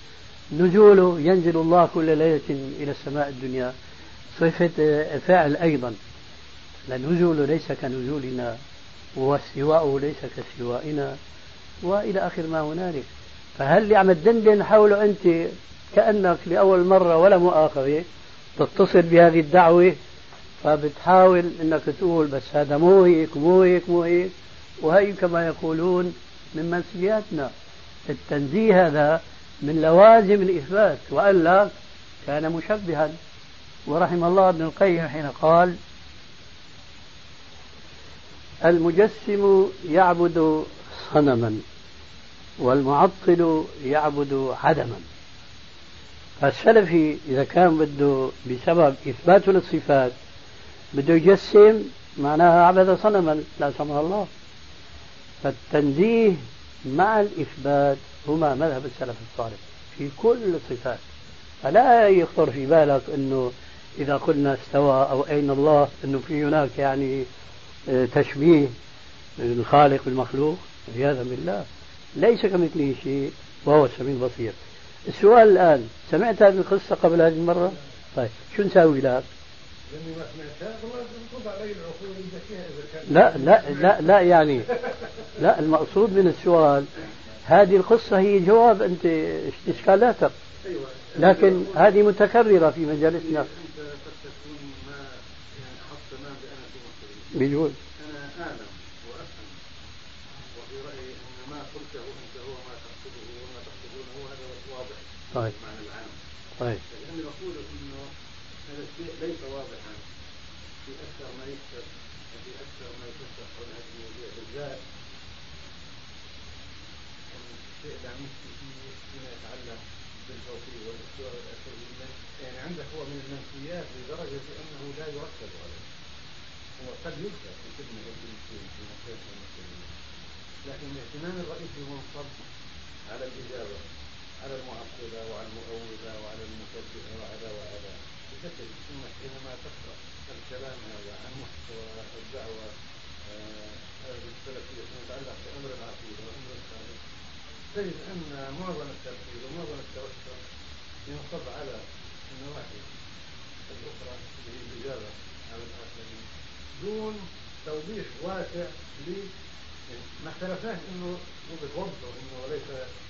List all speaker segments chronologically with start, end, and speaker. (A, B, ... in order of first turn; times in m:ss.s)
0:00.5-0:03.8 A
0:04.3-0:06.0 A
0:06.9-0:08.6 A
0:09.2-0:11.2 A
0:11.8-0:18.1 A
0:18.6-0:20.0 A
0:20.6-0:27.5 A
0:28.1-0:31.7 A
0:32.2-0:33.2 A
0:33.9-0:35.8 A
0:38.6-0:41.6 A
0:42.6-0:45.1 A
0:46.4-0:50.2 A
0:50.9-0:54.3 A
0:55.4-1:01.0 A
1:01.6-1:07.3 A
1:07.9-1:08.7 A
1:09.4-1:19.3 A
1:19.9-1:24.1 B
1:23.1-1:24.7 A
1:24.7-1:25.1 B
1:25.4-1:26.9 A
1:27.4-1:30.3 A
1:30.6-1:32.0 B
1:31.2-1:33.5 A
1:33.2-1:37.4 B
1:37.3-1:37.8 A
1:38.0-1:39.6 B
1:40.5-1:46.2 B
1:46.9-1:48.1 B
1:48.7-1:50.0 B
1:50.8-1:54.8 B
1:57.3-2:05.8 B
2:06.8-2:09.9 B
2:10.6-2:12.4 B
2:13.1-2:13.8 B
2:14.4-2:22.7 B
2:23.2-2:27.0 B
2:27.7-2:30.4 B
2:31.1-2:32.9 B
2:33.7-2:36.2 B
2:36.8-2:39.3 B
2:39.9-2:42.9 B